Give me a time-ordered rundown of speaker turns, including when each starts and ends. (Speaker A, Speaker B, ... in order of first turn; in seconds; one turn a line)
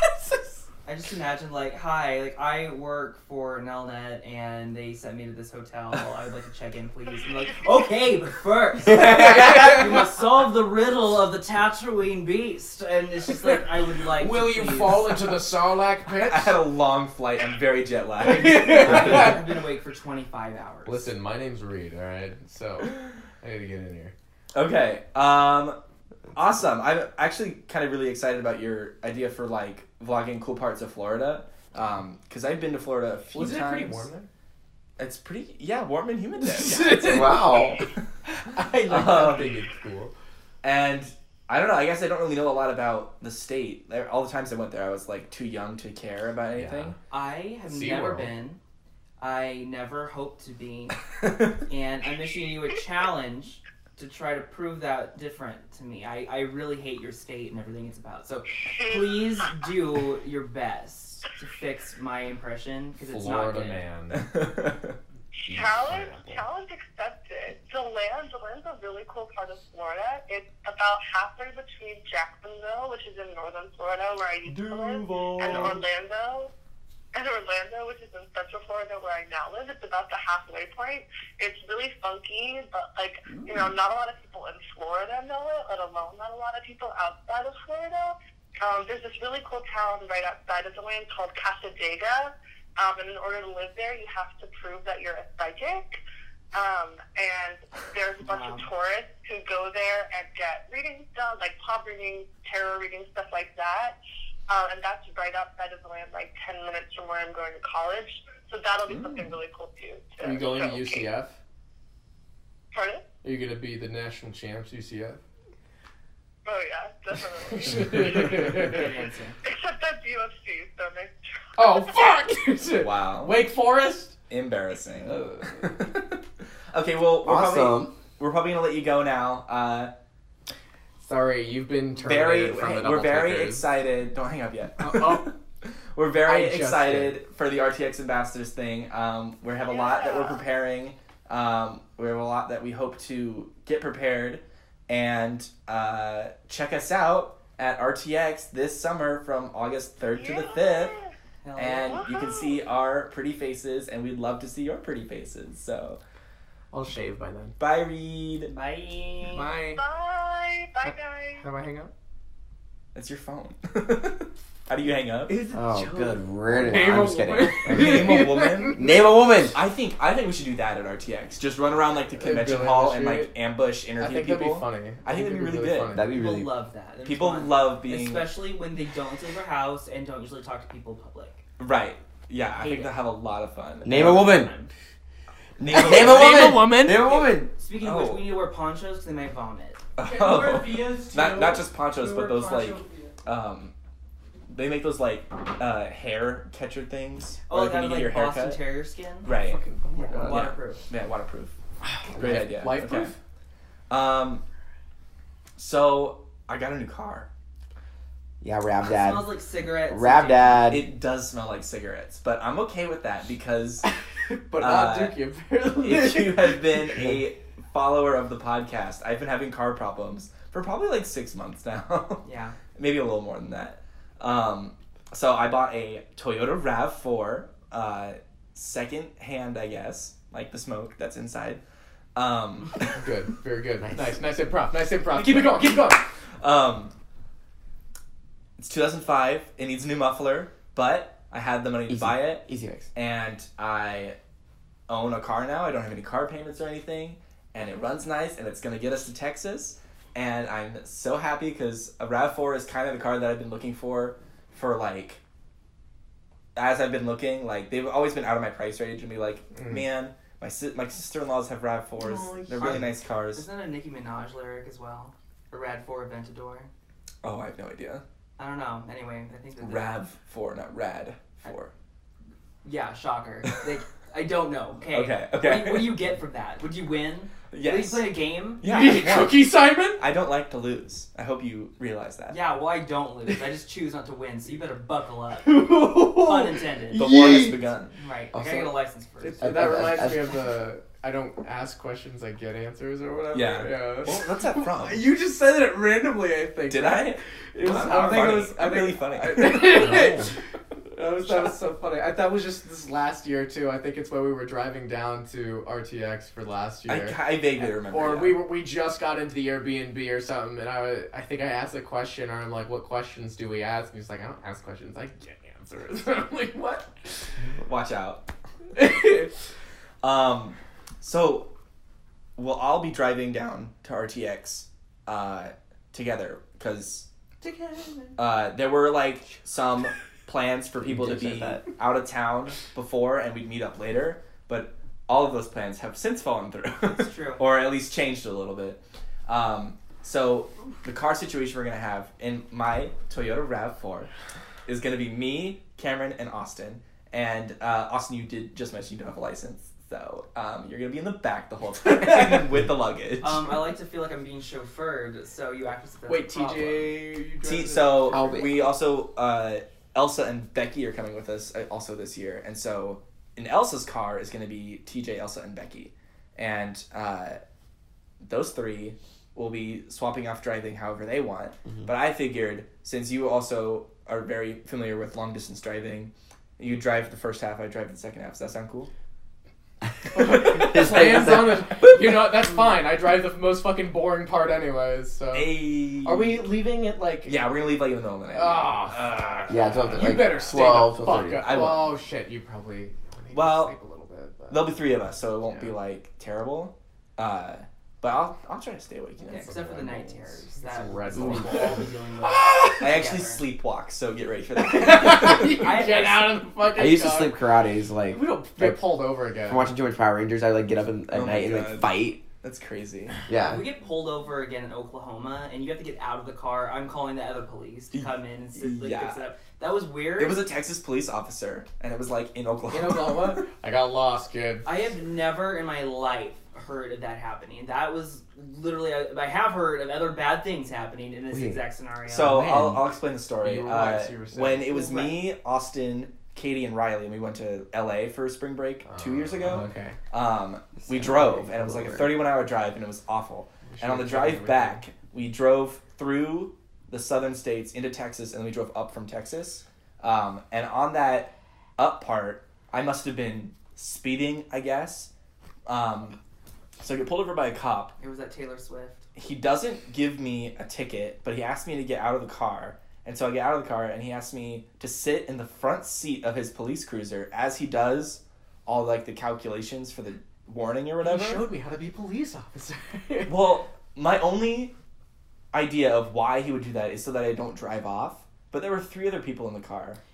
Speaker A: 0.8-15.3
Speaker B: 9.1-9.8
Speaker B: 14.1-16.6
Speaker C: 16.1-19.4
Speaker B: 18.2-19.4
Speaker A: 18.4-21.1
Speaker B: 20.8-24.1
Speaker C: 24.5-25.8
Speaker C: 26.3-34.1
Speaker B: 33.3-34.3
Speaker C: 35.0-37.2
Speaker B: 36.4-37.9
Speaker D: 37.0-37.8
Speaker B: 38.5-40.1
Speaker C: 38.8-39.6
Speaker C: 40.6-47.0
Speaker B: 46.5-46.9
Speaker A: 47.1-48.6
Speaker B: 47.6-48.3
Speaker A: 49.2-63.8
Speaker C: 51.2-51.6
Speaker E: 58.6-59.5
Speaker B: 63.0-64.3
Speaker C: 64.1-65.0
Speaker B: 65.5-66.4
Speaker E: 65.5-76.5
Speaker B: 74.5-75.8
Speaker C: 75.4-75.8
Speaker E: 77.1-96.0
Speaker E: 96.5-104.0
Speaker A: 98.2-98.7
Speaker E: 104.5-111.1
Speaker C: 108.9-109.2
Speaker B: 110.2-111.3
Speaker E: 112.7-113.0
Speaker B: 113.2-115.2
Speaker E: 116.4-118.1
Speaker B: 117.5-118.9
Speaker A: 118.3-119.4
Speaker E: 119.4-121.7
Speaker B: 121.6-124.1
Speaker C: 122.8-123.4
Speaker C: 124.3-129.9
Speaker B: 125.0-125.7
Speaker D: 127.2-127.9
Speaker B: 131.0-133.7
Speaker C: 131.9-150.9
Speaker B: 134.8-135.3
Speaker B: 136.2-137.2
Speaker E: 139.6-140.4
Speaker E: 150.2-151.1
Speaker A: 151.4-152.1
Speaker C: 151.6-156.0
Speaker E: 152.1-152.5
Speaker B: 156.7-157.6
Speaker C: 157.6-158.5
Speaker A: 158.5-159.5
Speaker B: 159.2-159.8
Speaker E: 159.8-161.4
Speaker B: 160.8-161.9
Speaker C: 162.9-165.4
Speaker B: 165.3-168.9
Speaker D: 165.5-168.2
Speaker C: 167.6-168.9
Speaker D: 168.7-169.6
Speaker C: 169.4-176.0
Speaker B: 172.2-173.3
Speaker B: 174.0-176.2
Speaker D: 175.9-176.5
Speaker A: 176.1-181.4
Speaker C: 177.0-178.3
Speaker C: 181.6-184.5
Speaker A: 182.6-182.9
Speaker D: 183.8-184.5
Speaker A: 183.9-184.7
Speaker C: 185.6-186.6
Speaker D: 185.7-187.5
Speaker B: 185.7-187.0
Speaker A: 186.8-189.8
Speaker C: 187.8-188.2
Speaker C: 190.0-193.7
Speaker B: 190.0-193.2
Speaker C: 194.5-198.6
Speaker A: 197.5-199.3
Speaker C: 199.2-199.6
Speaker B: 199.3-200.5
Speaker A: 199.9-200.8
Speaker C: 200.2-201.5
Speaker B: 201.8-203.2
Speaker C: 202.1-203.1
Speaker C: 203.9-204.4
Speaker C: 205.6-207.3
Speaker D: 208.4-209.3
Speaker A: 208.8-210.7
Speaker D: 209.9-210.8
Speaker C: 210.7-213.8
Speaker B: 213.8-217.0
Speaker C: 214.6-215.2
Speaker C: 215.8-231.6
Speaker A: 222.2-222.6
Speaker C: 232.1-233.1
Speaker B: 232.9-236.1
Speaker D: 233.8-234.2
Speaker C: 235.1-236.9
Speaker C: 238.6-244.2
Speaker D: 241.9-242.9
Speaker C: 244.9-255.2
Speaker C: 256.5-263.5
Speaker B: 259.5-259.8
Speaker B: 262.0-262.9
Speaker A: 263.3-266.7
Speaker C: 267.2-268.0
Speaker A: 268.4-270.0
Speaker C: 269.6-271.7
Speaker A: 272.6-278.6
Speaker C: 274.9-276.0
Speaker C: 277.5-282.4
Speaker B: 278.6-280.0
Speaker A: 282.3-287.0
Speaker B: 285.4-287.6
Speaker C: 286.9-287.9
Speaker A: 287.9-289.9
Speaker D: 288.3-288.7
Speaker B: 289.2-300.4
Speaker D: 289.4-290.4
Speaker C: 293.3-295.0
Speaker C: 296.7-300.2
Speaker D: 299.8-300.3
Speaker B: 300.9-317.3
Speaker C: 306.9-308.4
Speaker C: 317.6-318.2
Speaker B: 318.8-319.3
Speaker C: 320.0-321.5
Speaker C: 322.4-327.1
Speaker A: 327.4-328.2
Speaker C: 328.2-344.1
Speaker D: 330.8-331.6
Speaker A: 336.8-337.4
Speaker C: 344.6-353.6
Speaker A: 353.2-356.9
Speaker B: 356.1-358.4
Speaker C: 357.4-367.4
Speaker D: 358.1-358.7
Speaker C: 368.2-378.9
Speaker B: 380.1-387.4
Speaker D: 380.2-382.0
Speaker C: 380.4-380.9
Speaker C: 385.3-386.5
Speaker C: 387.2-390.2
Speaker B: 388.3-394.9
Speaker D: 389.5-391.5
Speaker C: 391.4-391.9
Speaker C: 393.3-393.7
Speaker C: 394.5-399.6
Speaker B: 395.4-395.7
Speaker B: 399.2-403.0
Speaker A: 399.2-403.4
Speaker C: 402.8-405.7
Speaker B: 404.5-407.4
Speaker A: 405.0-406.5
Speaker D: 406.7-408.8
Speaker B: 408.1-409.7
Speaker D: 409.5-412.2
Speaker C: 411.1-413.2
Speaker D: 413.3-413.6
Speaker A: 413.4-420.4
Speaker C: 417.9-419.2
Speaker C: 420.2-423.5
Speaker B: 422.7-424.7
Speaker A: 424.6-432.4
Speaker D: 431.3-431.6
Speaker C: 432.1-455.1
Speaker D: 432.2-432.9
Speaker B: 433.4-434.7
Speaker A: 434.6-435.2
Speaker B: 438.8-439.7
Speaker D: 439.4-439.9
Speaker D: 440.9-442.1
Speaker B: 443.7-444.8
Speaker C: 455.6-456.2
Speaker C: 456.8-457.9
Speaker A: 458.0-459.1
Speaker C: 459.1-471.4
Speaker B: 471.0-473.4
Speaker C: 473.3-474.7
Speaker C: 475.5-480.0